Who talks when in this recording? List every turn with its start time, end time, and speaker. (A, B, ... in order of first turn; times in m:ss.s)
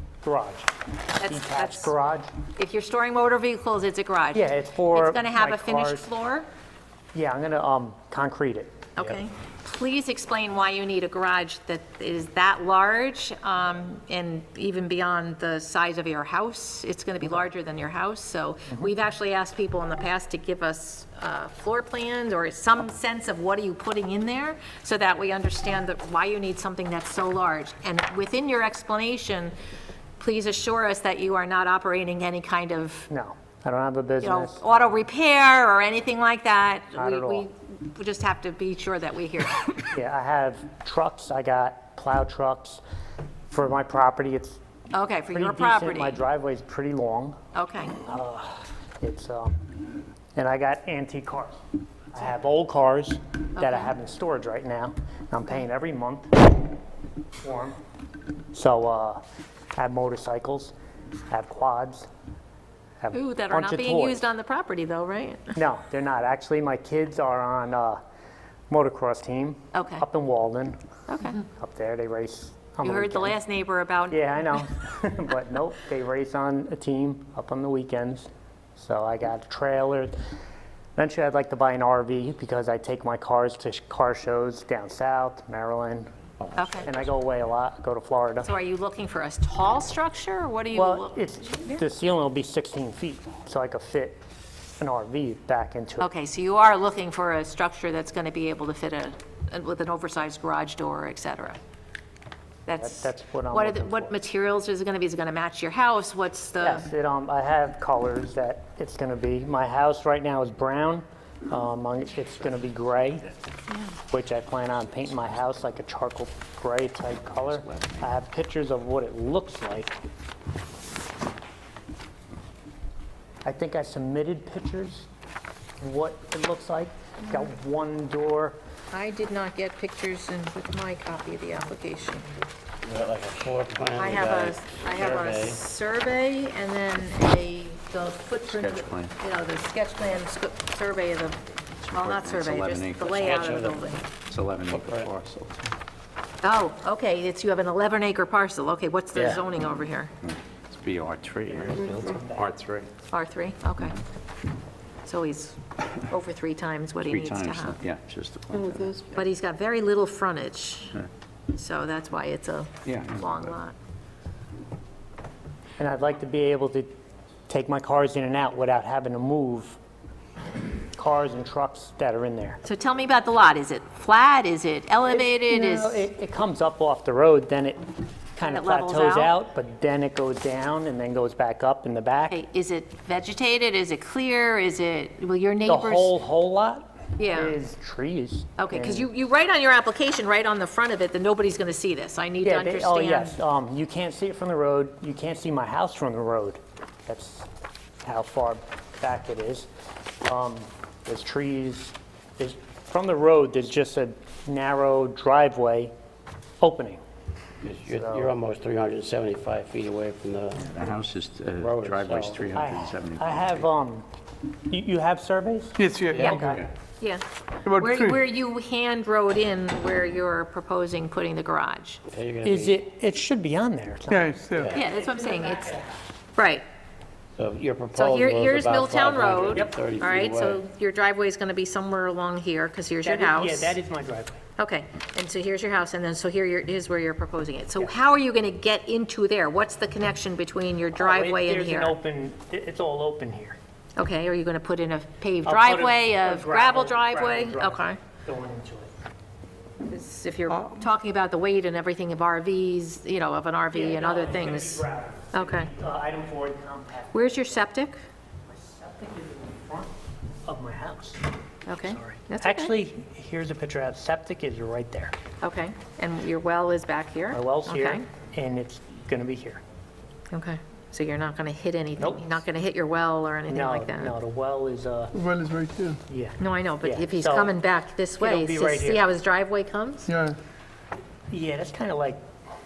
0:00.2-0:00.7 A
0:01.2-0:01.9 B
0:01.2-0:02.3 A
0:02.5-0:06.5 B
0:04.3-0:06.1 A
0:07.1-0:08.8 A
0:09.0-0:29.6 B
0:30.2-0:33.1 B
0:33.1-0:35.0 A
0:34.2-0:39.9 B
0:37.0-0:37.5 A
0:39.9-0:42.8 A
0:43.5-0:44.6 A
0:44.9-0:46.2 B
0:45.3-0:47.4 A
0:47.6-0:48.0 B
0:47.9-0:49.6 A
0:50.4-0:51.6 A
0:52.1-0:56.4 A
0:53.6-0:53.9 B
0:57.4-0:57.8 A
0:58.5-0:59.2 A
0:59.8-1:00.7 A
1:01.3-1:02.1 A
1:03.0-1:04.3 A
1:03.1-1:05.5 B
1:05.6-1:08.0 A
1:08.7-1:10.8 A
1:09.7-1:10.0 B
1:11.1-1:11.4 B
1:11.4-1:13.4 A
1:12.8-1:14.7 B
1:14.1-1:20.2 A
1:21.0-1:26.1 A
1:26.4-1:26.9 C
1:26.6-1:26.9 B
1:26.8-1:28.5 A
1:28.4-1:31.8 B
1:30.7-1:34.2 A
1:34.8-1:36.1 A
1:36.0-1:41.6 B
1:42.7-1:46.9 B
1:42.8-1:44.2 A
1:46.6-1:53.3 A
1:54.1-1:59.9 A
1:57.5-1:58.1 C
2:03.4-2:05.1 A
2:05.8-2:08.6 A
2:08.9-2:12.3 B
2:12.8-2:15.6 D
2:14.0-2:24.1 B
2:18.4-2:19.2 C
2:21.8-2:23.6 C
2:23.2-2:23.9 D
2:24.3-2:25.7 C
2:24.7-2:25.1 D
2:26.4-2:30.1 B
2:29.2-2:29.4 D
2:30.2-2:32.9 C
2:32.0-2:32.5 A
2:33.1-2:34.0 B
2:35.0-2:37.8 B
2:37.0-2:39.2 C
2:39.1-2:41.0 B
2:41.5-2:43.8 B
2:42.8-2:43.6 C
2:45.8-2:46.9 A
2:47.5-2:49.8 A
2:51.0-2:52.6 A
2:52.6-2:56.1 B
2:55.1-3:02.3 A
2:58.4-2:59.3 B
3:02.3-3:06.1 B
3:05.7-3:09.1 A
3:07.2-3:07.6 B
3:08.6-3:13.4 B
3:12.4-3:17.5 A
3:18.0-3:19.7 A
3:20.2-3:25.9 A
3:26.6-3:27.0 A
3:27.6-3:30.8 D
3:27.9-3:28.3 A
3:30.6-3:33.6 C
3:31.6-3:32.4 D
3:32.5-3:34.1 A
3:34.7-3:36.7 A
3:35.8-3:36.4 E
3:36.1-3:36.4 D
3:36.4-3:36.7 C
3:37.0-3:42.0 B
3:37.7-3:38.1 E
3:42.1-3:42.8 D
3:42.4-3:46.0 A
3:44.2-3:44.7 E
3:44.6-3:44.8 D
3:44.7-3:45.8 B
3:46.4-3:46.6 B
3:47.4-3:50.6 D
3:48.0-3:53.8 B
3:53.0-3:54.4 A
3:54.6-4:02.0 B
4:01.0-4:03.6 A
4:04.0-4:08.0 B
4:05.4-4:08.9 A
4:09.9-4:15.7 B
4:13.7-4:17.6 A
4:17.1-4:18.0 B
4:18.5-4:19.9 A
4:20.4-4:21.2 A
4:21.7-4:22.8 B
4:21.8-4:25.2 A
4:25.4-4:28.0 B
4:27.3-4:29.6 A
4:30.3-4:34.2 B
4:32.0-4:32.4 A
4:33.5-4:35.2 A
4:35.2-4:36.0 E
4:36.1-4:37.6 A
4:36.4-4:40.1 B
4:38.2-4:39.0 A
4:40.1-4:40.4 E
4:41.3-4:42.2 A